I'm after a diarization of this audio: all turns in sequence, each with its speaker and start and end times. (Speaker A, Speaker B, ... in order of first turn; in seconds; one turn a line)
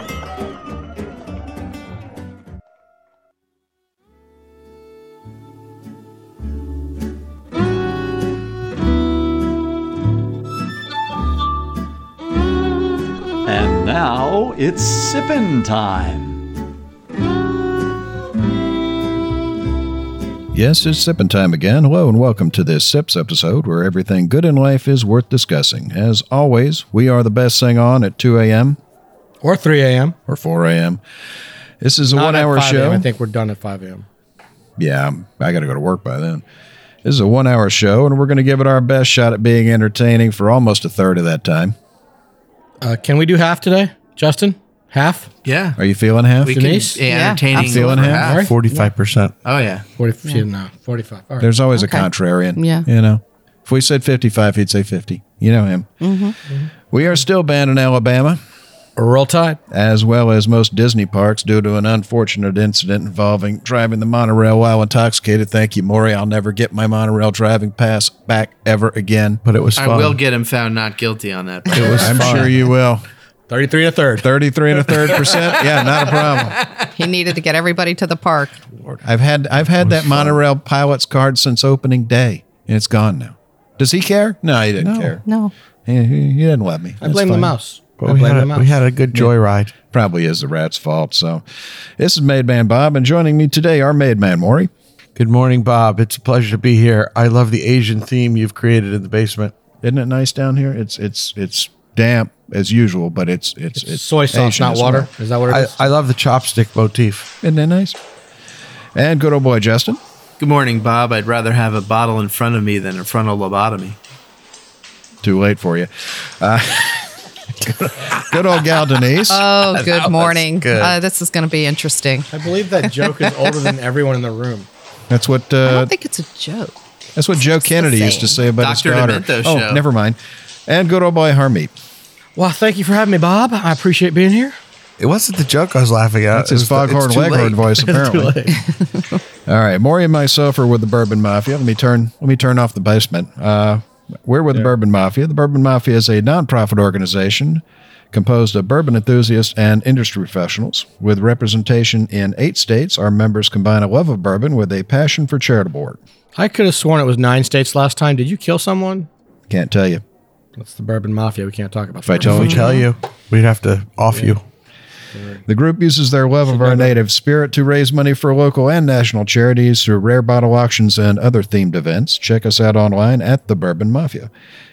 Speaker A: 13.4-16.4
Speaker B: 20.5-28.8
Speaker C: 29.4-30.2
Speaker B: 30.3-31.0
Speaker B: 31.8-33.1
Speaker C: 32.0-34.0
Speaker B: 34.8-36.4
Speaker B: 37.0-41.8
Speaker C: 42.8-45.3
Speaker D: 45.4-45.8
Speaker B: 45.8-46.6
Speaker D: 46.4-48.4
Speaker C: 46.5-47.0
Speaker E: 47.0-48.1
Speaker B: 47.5-48.2
Speaker C: 48.2-48.5
Speaker F: 48.2-49.3
Speaker D: 49.4-49.9
Speaker C: 50.0-51.5
Speaker B: 51.4-55.9
Speaker E: 51.7-52.9
Speaker E: 56.0-56.4
Speaker B: 56.9-58.4
Speaker C: 59.0-59.6
Speaker B: 59.7-69.4
Speaker F: 69.4-70.2
Speaker D: 69.8-72.5
Speaker F: 71.7-72.5
Speaker B: 71.9-73.0
Speaker C: 73.5-74.3
Speaker B: 74.2-76.6
Speaker C: 75.1-75.3
Speaker E: 77.0-78.6
Speaker B: 78.8-85.2
Speaker F: 79.8-80.3
Speaker E: 84.8-85.5
Speaker B: 85.8-87.5
Speaker C: 87.0-88.7
Speaker F: 88.0-89.7
Speaker B: 89.8-91.4
Speaker B: 92.0-94.7
Speaker F: 95.2-99.5
Speaker B: 99.8-105.1
Speaker C: 103.7-105.8
Speaker F: 105.5-107.3
Speaker B: 107.4-108.0
Speaker B: 108.9-110.0
Speaker D: 110.4-114.0
Speaker B: 115.2-119.4
Speaker E: 119.3-122.3
Speaker F: 119.7-121.0
Speaker C: 122.3-124.7
Speaker B: 125.1-125.9
Speaker E: 125.6-126.7
Speaker B: 127.2-131.7
Speaker E: 127.6-128.4
Speaker D: 128.6-129.8
Speaker C: 132.4-134.5
Speaker F: 135.0-137.6
Speaker B: 136.3-138.5
Speaker C: 137.8-138.7
Speaker B: 139.5-156.0
Speaker C: 156.3-159.1
Speaker B: 159.5-160.0
Speaker C: 160.6-162.4
Speaker B: 162.1-162.7
Speaker F: 162.2-164.4
Speaker E: 162.4-162.8
Speaker C: 165.1-165.4
Speaker B: 165.5-174.3
Speaker C: 166.4-166.9